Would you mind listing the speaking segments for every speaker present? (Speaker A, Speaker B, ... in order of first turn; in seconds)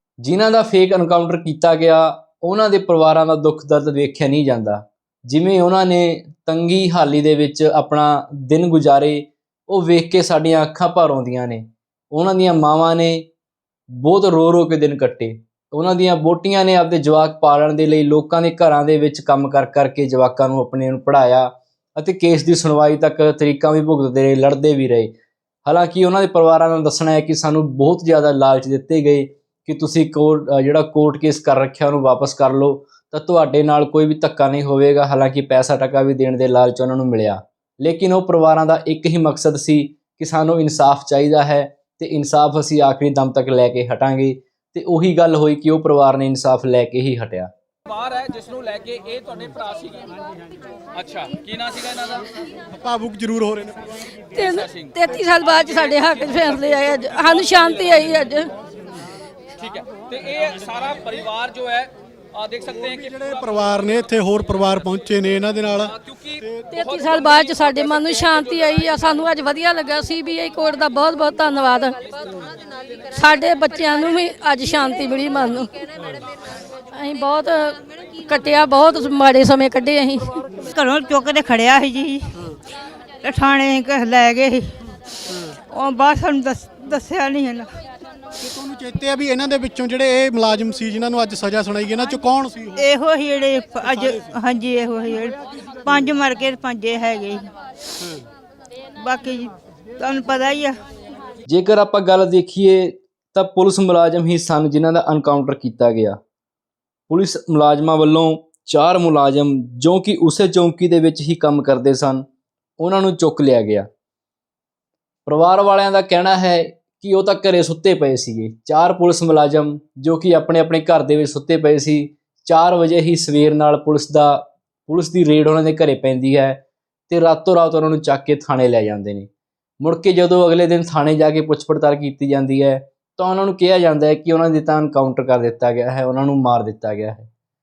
Speaker A: 0.2-13.3, 13.9-25.1, 25.6-47.5, 101.5-106.2, 107.1-112.2, 112.8-113.9, 115.2-129.3, 129.8-137.3
Speaker B: 48.0-50.0, 51.0-51.8, 60.1-61.9
Speaker C: 52.7-53.8, 62.7-65.9, 88.4-92.7
Speaker D: 54.3-58.5, 66.7-72.0, 73.1-75.7, 76.9-80.4
Speaker E: 80.7-82.5, 83.2-84.7, 85.7-87.7, 92.8-97.4, 99.0-100.8